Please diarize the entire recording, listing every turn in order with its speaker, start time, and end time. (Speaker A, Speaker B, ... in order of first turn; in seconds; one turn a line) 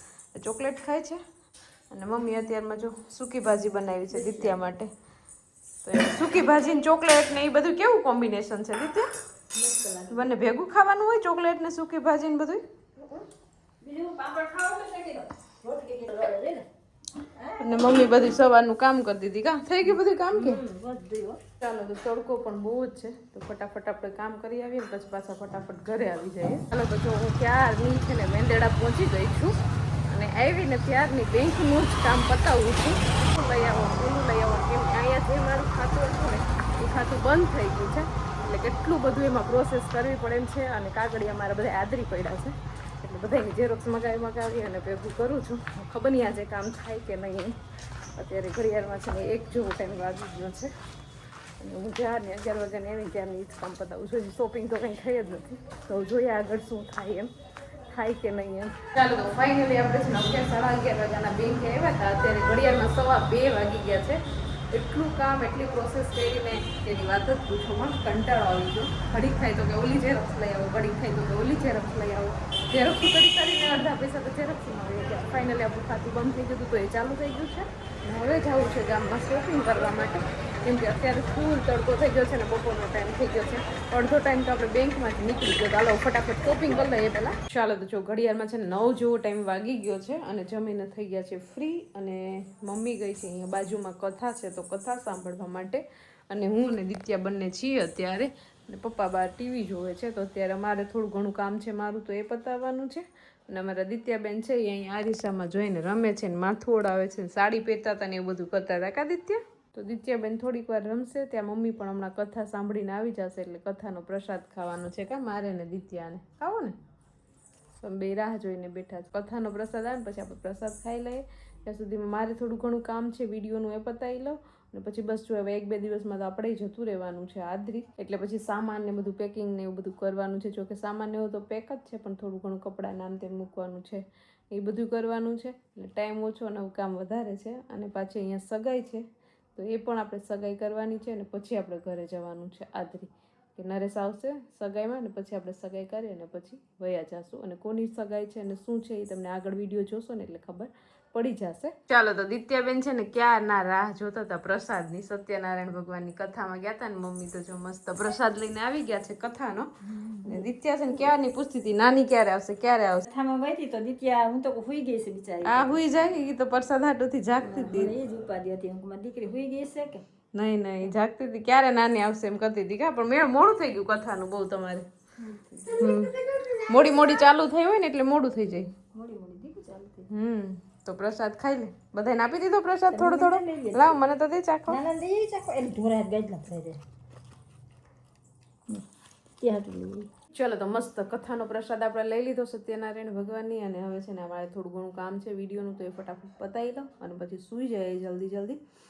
Speaker A: 0.3-1.2
Speaker A: 1.9-4.9
Speaker B: 4.1-4.6
Speaker A: 5.8-9.1
Speaker B: 9.5-10.3
Speaker A: 10.1-12.6
Speaker B: 13.0-13.2
Speaker B: 13.8-16.7
Speaker B: 17.4-18.1
Speaker A: 17.6-20.6
Speaker B: 20.3-21.4
Speaker A: 21.6-47.6
Speaker A: 48.1-50.7
Speaker A: 51.6-57.3
Speaker A: 57.9-116.8
Speaker A: 117.8-159.7
Speaker B: 159.8-160.5
Speaker A: 160.2-163.1
Speaker B: 163.1-165.8
Speaker A: 165.4-167.9
Speaker B: 167.4-170.0
Speaker A: 170.3-174.9
Speaker B: 175.2-177.0
Speaker A: 175.8-176.2
Speaker A: 176.7-178.7
Speaker B: 178.9-180.1
Speaker A: 180.1-184.8
Speaker B: 182.9-184.0
Speaker B: 184.7-186.8
Speaker B: 189.4-190.1
Speaker A: 190.3-198.6